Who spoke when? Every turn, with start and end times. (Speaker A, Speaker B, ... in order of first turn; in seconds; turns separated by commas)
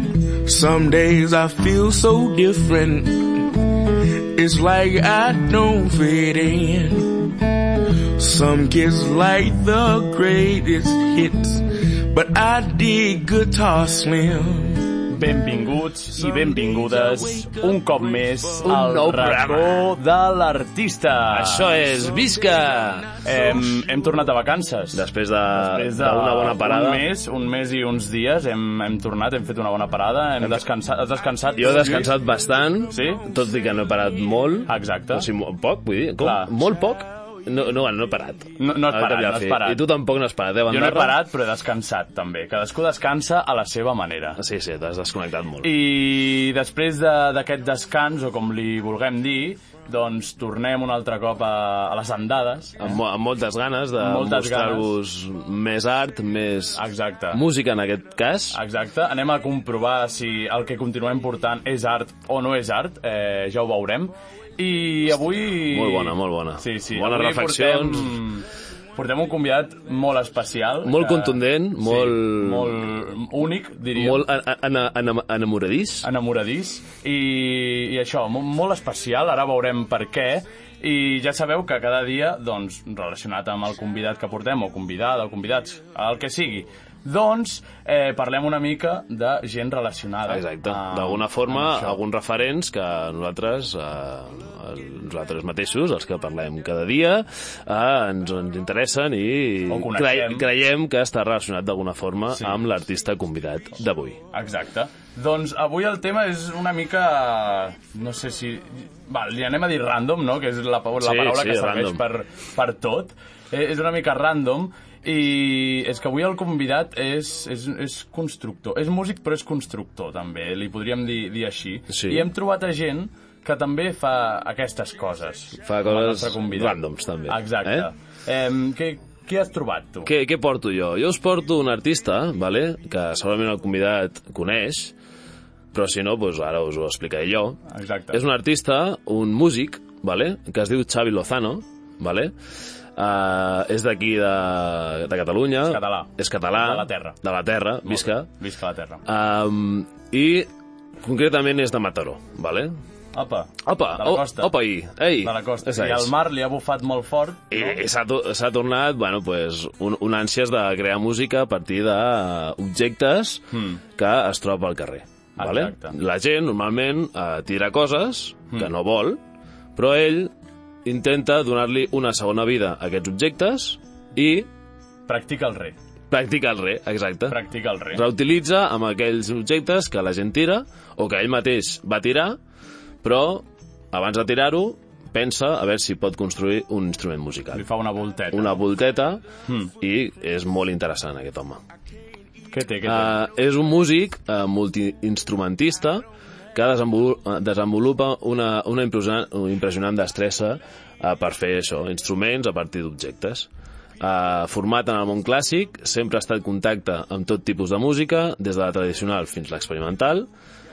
Speaker A: 0.4-15.0, Speaker B: 15.1-21.7, Speaker A: 16.1-19.3, Speaker C: 18.6-19.9, Speaker C: 21.3-23.1, Speaker A: 21.8-23.9, Speaker B: 23.2-32.2, Speaker C: 24.9-27.1, Speaker C: 31.6-41.2, Speaker B: 32.9-33.2, Speaker B: 34.7-35.3, Speaker B: 36.2-36.6, Speaker B: 38.6-39.8, Speaker B: 40.7-44.4, Speaker C: 44.4-45.7, Speaker B: 45.6-53.0, Speaker C: 52.8-56.8, Speaker B: 54.0-54.9, Speaker B: 56.8-57.4, Speaker C: 57.3-58.6, Speaker B: 58.5-74.2, Speaker C: 65.4-68.2, Speaker C: 70.8-72.8, Speaker C: 73.9-76.1, Speaker B: 76.0-92.0, Speaker C: 90.3-104.2, Speaker B: 99.7-100.5, Speaker B: 102.3-102.6, Speaker B: 104.3-130.1, Speaker C: 111.0-112.0, Speaker C: 121.9-122.3, Speaker C: 125.6-127.9, Speaker C: 130.1-134.9, Speaker C: 135.7-142.3, Speaker B: 137.7-138.2, Speaker C: 142.9-148.3, Speaker B: 145.6-147.2, Speaker B: 147.8-149.0, Speaker C: 149.1-150.5, Speaker C: 151.0-152.8, Speaker B: 153.1-154.5, Speaker C: 153.6-156.1, Speaker B: 155.2-157.8, Speaker C: 157.5-169.2, Speaker B: 163.5-163.8, Speaker B: 165.4-166.0, Speaker C: 169.8-170.3, Speaker C: 170.8-174.5, Speaker B: 175.1-175.8, Speaker C: 176.1-177.4, Speaker B: 177.3-178.0, Speaker C: 177.9-182.4, Speaker C: 183.0-187.6, Speaker B: 187.5-188.6, Speaker C: 188.3-189.2, Speaker B: 189.5-189.7, Speaker C: 189.8-191.6, Speaker B: 192.5-193.2, Speaker C: 192.8-203.5, Speaker C: 204.0-210.3